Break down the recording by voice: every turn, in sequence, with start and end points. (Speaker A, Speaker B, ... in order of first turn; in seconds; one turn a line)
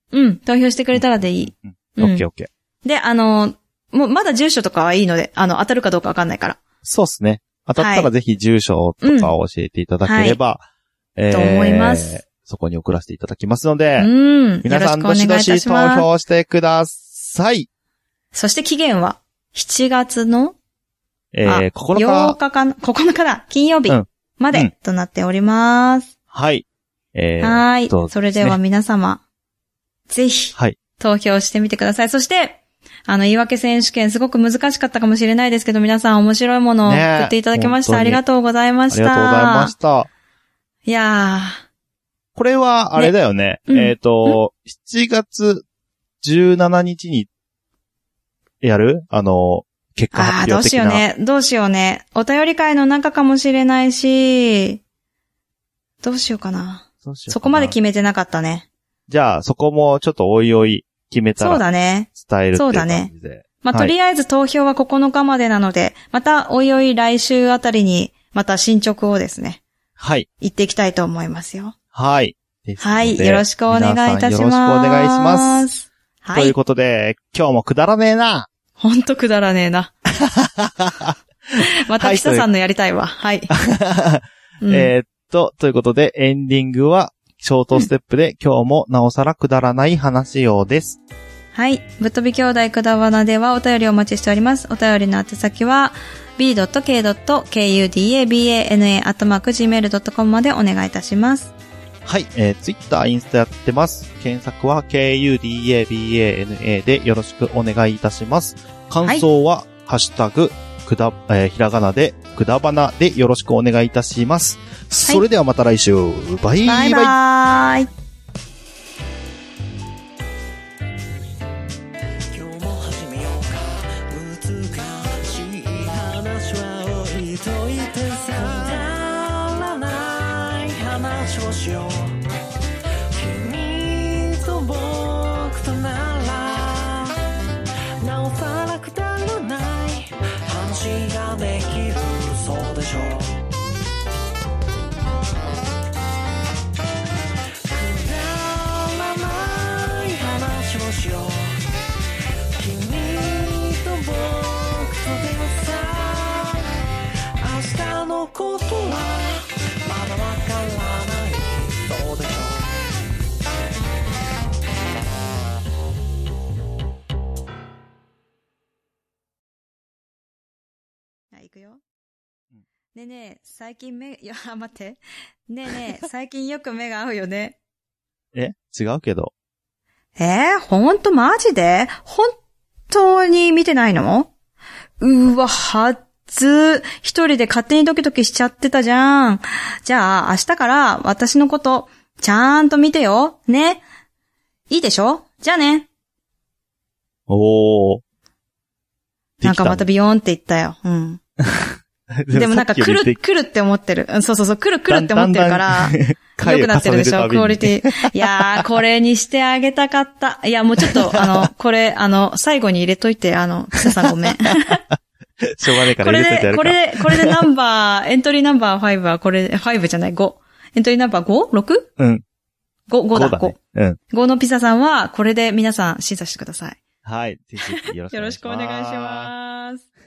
Speaker A: 0.1-2.2
Speaker B: 0.9-2.5
Speaker A: 2.8-6.6
Speaker B: 6.8-10.6
Speaker A: 7.8-8.1
Speaker A: 9.0-9.3
Speaker A: 10.0-10.4
Speaker B: 11.2-14.1
Speaker A: 11.3-12.2
Speaker A: 14.0-16.1
Speaker B: 14.6-17.7
Speaker A: 18.3-20.5
Speaker B: 21.3-22.4
Speaker A: 21.4-26.1
Speaker B: 23.9-24.7
Speaker B: 26.3-28.6
Speaker A: 27.4-29.2
Speaker A: 30.1-39.7
Speaker B: 36.8-38.2
Speaker B: 38.9-40.1
Speaker A: 40.9-41.6
Speaker B: 42.3-45.6
Speaker A: 43.7-44.4
Speaker B: 46.2-47.3
Speaker B: 48.6-51.0
Speaker A: 50.1-54.8
Speaker A: 56.0-58.6
Speaker B: 57.0-57.7
Speaker B: 59.1-63.9
Speaker A: 61.4-69.6
Speaker B: 70.0-70.3
Speaker A: 70.4-71.7
Speaker B: 71.9-75.7
Speaker A: 72.8-76.5
Speaker B: 76.3-78.5
Speaker A: 78.8-79.9
Speaker B: 80.2-82.5
Speaker A: 81.6-83.5
Speaker B: 83.5-91.0
Speaker A: 84.6-84.9
Speaker A: 91.5-101.5
Speaker B: 102.0-117.1
Speaker A: 116.7-117.9
Speaker C: 122.3-132.2
Speaker C: 133.1-137.2
Speaker C: 138.0-143.3
Speaker C: 147.6-151.7
Speaker C: 152.6-156.8
Speaker C: 157.4-162.8
Speaker A: 171.3-171.8
Speaker A: 172.9-177.6
Speaker B: 178.3-179.3
Speaker A: 180.2-182.3
Speaker A: 182.9-184.3
Speaker A: 185.0-193.8
Speaker A: 194.7-195.9
Speaker B: 197.3-198.0
Speaker B: 199.4-199.8
Speaker A: 199.4-201.2
Speaker B: 201.4-203.2
Speaker A: 202.3-214.8
Speaker B: 204.9-208.6
Speaker B: 210.8-211.5
Speaker B: 215.5-217.3
Speaker A: 216.0-221.9
Speaker B: 222.0-222.2
Speaker A: 222.9-223.6
Speaker B: 223.1-224.0
Speaker A: 224.1-226.8
Speaker B: 227.0-229.3
Speaker A: 227.8-229.8